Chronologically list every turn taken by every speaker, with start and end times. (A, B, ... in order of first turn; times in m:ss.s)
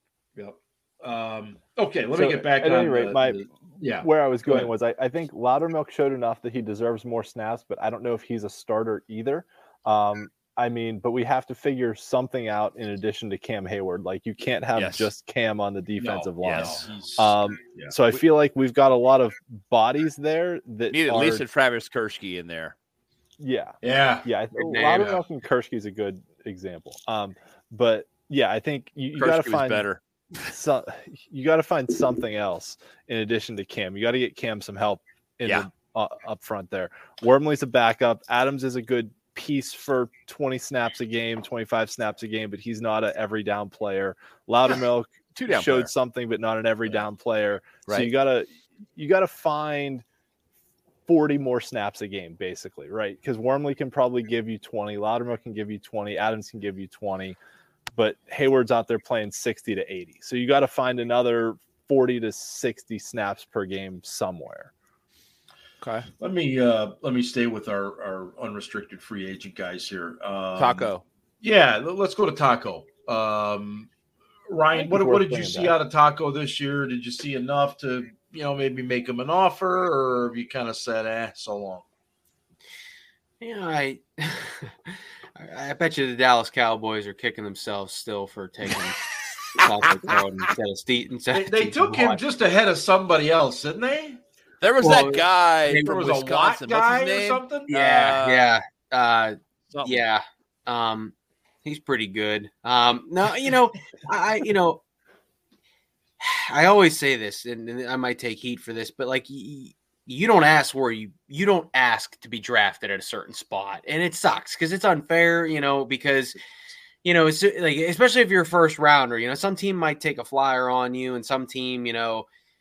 0:00.4-0:04.7 A
0:02.1-0:03.4 B
0:04.0-0:21.4 B
0:14.8-0:15.1 C
0:16.0-0:17.9 A
0:16.4-0:16.9 C
0:20.9-0:22.8 C
0:23.4-0:29.9 B
0:23.8-0:24.3 A
0:24.6-0:25.1 D
0:24.8-0:25.2 A
0:29.2-0:30.5 C
0:30.5-0:50.0 B
0:45.4-0:45.9 C
0:51.1-0:57.4 B
0:57.9-1:04.7 B
1:05.8-1:06.1 C
1:06.2-1:10.9 A
1:10.6-1:11.0 C
1:11.4-1:13.9 A
1:14.5-1:21.8 A
1:14.7-1:15.8 B
1:23.4-1:29.0 D
1:29.5-1:32.2 D
1:31.3-1:34.2 A
1:34.6-1:38.5 C
1:34.8-1:36.0 D
1:35.8-1:37.7 A
1:37.7-1:44.8 D
1:39.7-1:40.0 C
1:46.2-1:56.4 D
1:57.0-2:02.3 D